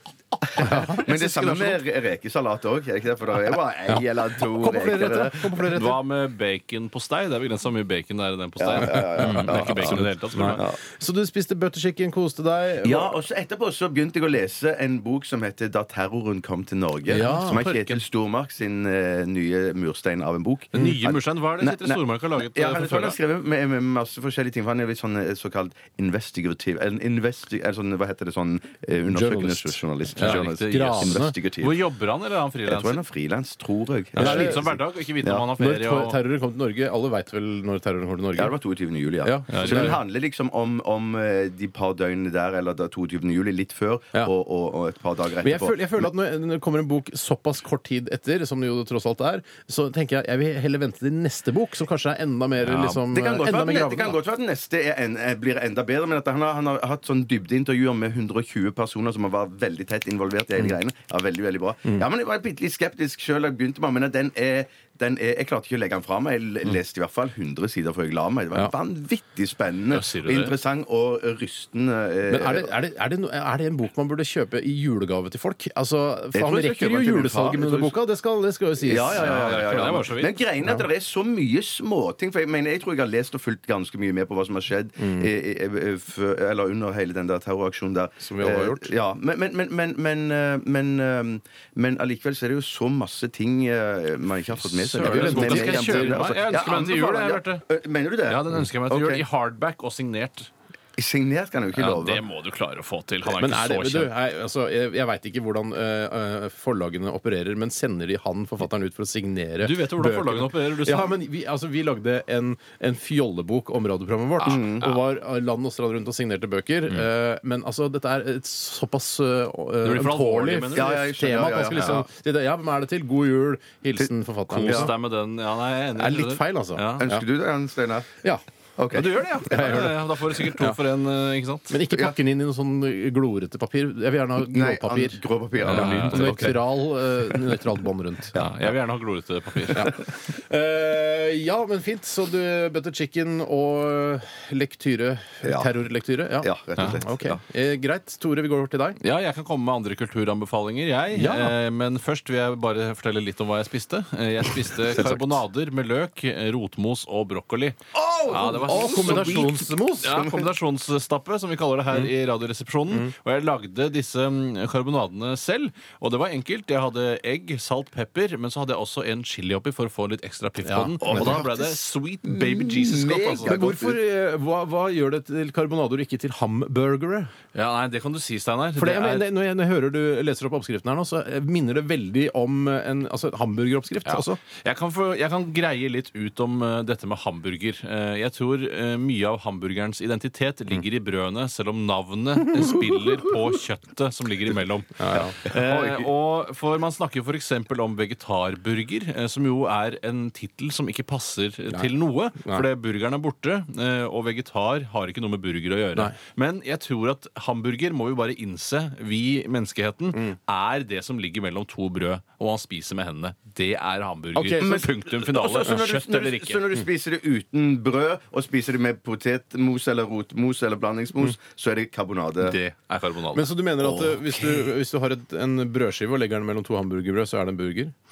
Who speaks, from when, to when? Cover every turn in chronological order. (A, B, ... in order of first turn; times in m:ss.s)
0:00.6-0:01.8 A
0:00.7-0:05.6 B
0:03.9-0:06.0 A
0:05.6-0:10.6 C
0:08.6-0:10.8 B
0:09.0-0:13.2 A
0:12.8-0:31.8 B
0:17.1-0:17.8 A
0:17.2-0:18.0 C
0:20.7-0:23.2 C
0:29.1-0:31.3 A
0:30.2-0:33.0 C
0:32.6-0:35.5 B
0:34.1-0:36.2 C
0:34.2-0:34.8 A
0:35.6-0:38.5 A
0:38.3-0:46.1 B
0:39.2-0:40.0 A
0:39.5-0:40.0 C
0:45.4-0:54.2 A
0:52.6-0:53.0 C
0:52.9-1:12.7 B
1:09.9-1:10.5 C
1:12.3-1:19.4 A
1:16.3-1:18.0 B
1:18.8-1:39.2 B
1:19.1-1:20.4 C
1:25.0-1:25.3 A
1:28.2-1:28.9 A
1:34.8-1:36.4 A
1:34.8-1:37.6 C
1:38.3-1:40.5 C
1:41.0-1:42.2 B
1:41.7-1:44.1 C
1:43.3-2:04.9 A
1:49.6-1:51.2 C
1:54.4-1:55.0 C
1:54.5-1:54.8 B
1:59.8-2:01.0 C
2:00.7-2:02.0 B
2:01.8-2:02.0 C
2:04.5-2:07.1 C
2:04.6-2:04.9 B
2:05.9-2:07.2 A
2:07.0-2:08.1 B
2:08.8-2:09.8 B
2:08.9-2:11.8 C
2:09.4-2:10.8 A
2:11.7-2:18.4 A
2:14.4-2:16.6 B
2:15.6-2:16.6 C
2:18.3-2:18.7 B
2:18.4-2:20.0 C
2:19.7-2:29.0 A
2:25.4-2:25.7 B
2:26.4-2:27.4 B
2:29.0-2:37.8 C
2:31.1-2:31.6 A
2:34.9-2:35.4 A
2:37.9-2:39.5 B
2:38.3-2:53.6 C
2:38.4-2:40.2 A
2:50.6-2:51.4 A
2:51.0-2:54.0 B
2:53.4-2:57.3 A
2:57.5-2:59.2 C
2:58.8-3:04.4 A
3:04.0-3:36.8 C
3:12.6-3:12.8 A
3:15.0-3:15.4 A
3:15.4-3:16.1 B
3:22.4-3:22.7 A
3:34.3-3:34.9 A
3:34.6-3:42.6 B
3:42.4-3:43.5 C
3:43.3-3:47.9 A
3:43.8-3:44.6 B